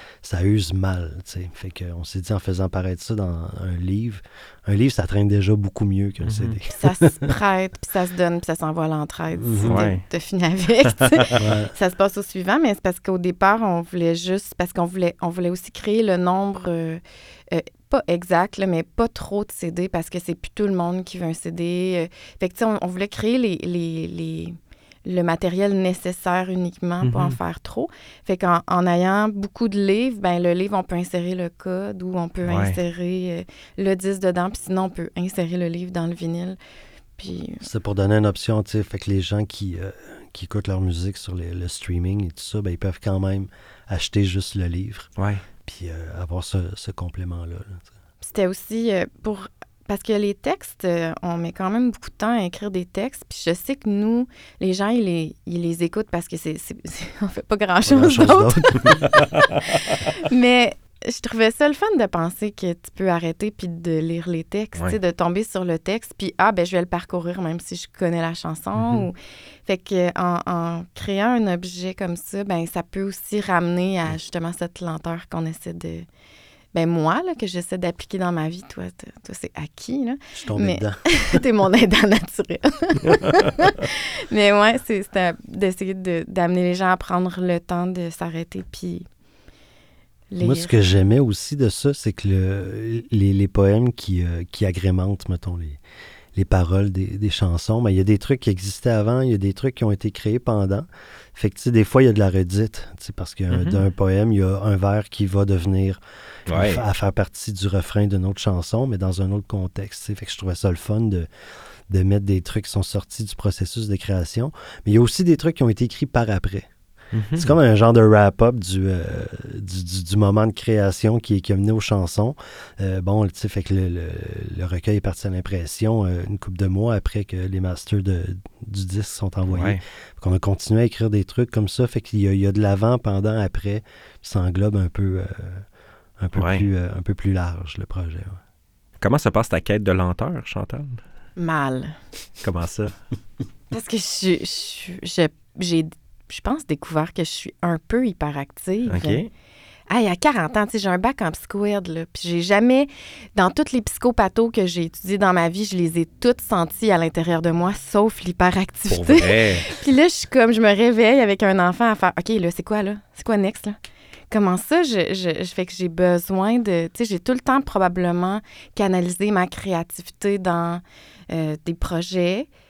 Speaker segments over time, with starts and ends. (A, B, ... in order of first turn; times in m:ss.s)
0:00.2-0:07.3 A
0:06.2-0:06.6 B
0:06.7-0:36.6 C
0:09.4-0:09.8 A
0:09.6-0:10.0 B
0:11.1-0:11.4 B
0:11.4-0:11.7 A
0:27.0-0:27.4 B
0:32.4-0:32.8 B
0:37.2-0:37.6 C
0:37.6-0:45.1 A
0:45.2-0:45.4 B
0:45.6-0:47.9 A
0:48.2-0:59.2 C
0:57.8-0:59.1 A
0:59.8-1:16.1 C
1:08.8-1:09.1 B
1:16.7-1:29.1 C
1:20.3-1:21.4 A
1:30.3-1:30.7 C
1:30.4-1:35.8 A
1:36.4-1:51.3 A
1:43.5-1:43.8 B
1:46.5-1:46.8 B
1:51.9-1:56.7 A
1:57.1-1:57.5 B
1:57.3-2:15.6 A
2:09.5-2:09.8 B
2:16.2-2:18.4 A
2:16.4-2:16.7 B
2:19.0-2:21.0 B
2:21.4-2:22.0 C
2:22.4-2:23.0 B
2:23.7-2:29.2 C
2:28.9-2:29.3 B
2:29.9-2:43.8 C
2:38.9-2:39.7 B
2:44.3-2:52.5 C